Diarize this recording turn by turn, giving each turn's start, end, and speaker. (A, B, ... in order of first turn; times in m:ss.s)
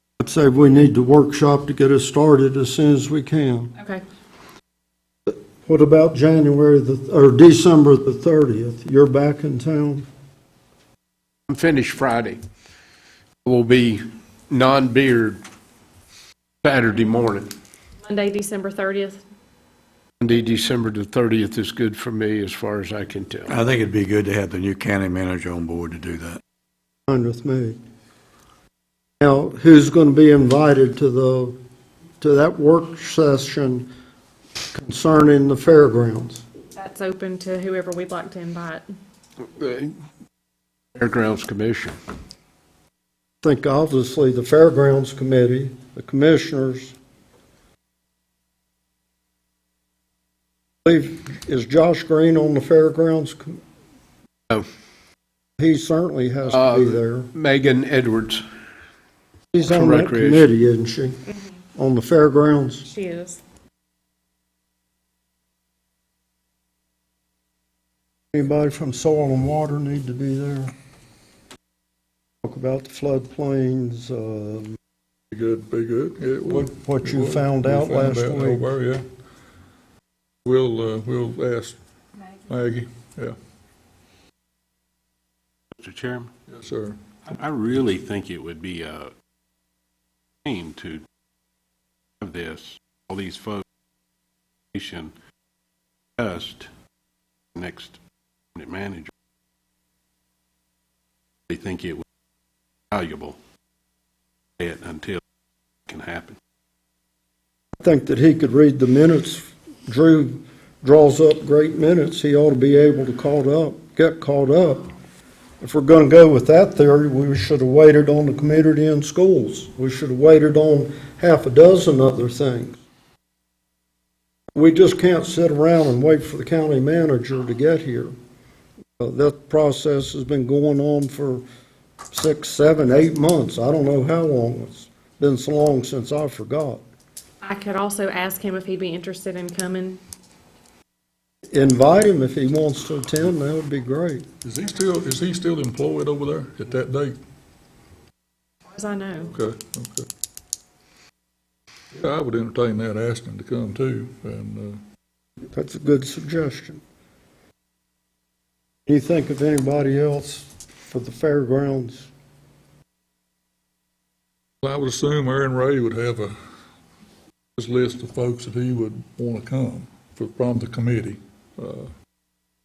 0:00.2-0:03.7 A
0:05.3-0:10.1 A
0:11.5-0:12.4 B
0:13.4-0:15.4 B
0:16.6-0:17.5 B
0:18.0-0:19.2 C
0:20.2-0:23.6 B
0:23.5-0:26.4 D
0:27.1-0:27.8 A
0:29.2-0:31.6 A
0:32.2-0:33.9 A
0:34.7-0:36.4 A
0:36.8-0:38.9 C
0:39.5-0:39.9 B
0:41.0-0:42.0 B
0:43.4-0:47.0 A
0:50.8-0:53.6 A
0:55.6-0:57.3 A
0:56.5-0:58.4 B
0:59.5-1:01.2 A
0:59.6-1:00.5 B
1:01.8-1:02.9 A
1:02.8-1:03.4 C
1:08.3-1:10.7 A
1:12.4-1:14.7 A
1:15.3-1:19.0 E
1:16.5-1:18.7 A
1:20.4-1:21.8 E
1:22.5-1:23.4 E
1:25.8-1:26.3 F
1:26.5-1:27.0 E
1:27.2-1:29.1 F
1:30.4-1:31.0 F
1:32.2-1:33.6 F
1:34.7-1:35.1 F
1:36.2-1:36.7 F
1:37.5-1:38.0 F
1:38.5-1:39.1 F
1:41.5-1:42.0 F
1:42.9-1:43.4 F
1:44.6-1:45.2 F
1:45.9-1:46.4 F
1:47.8-1:54.8 A
1:55.6-2:02.8 A
2:04.5-2:08.1 A
2:09.0-2:11.4 A
2:12.1-2:16.8 A
2:17.4-2:20.0 C
2:21.5-2:24.2 A
2:24.4-2:27.2 E
2:28.7-2:29.3 C
2:29.3-2:30.1 E
2:31.9-2:34.8 E
2:35.5-2:36.8 A
2:38.9-2:42.1 A
2:44.6-2:46.3 E
2:47.6-2:51.9 E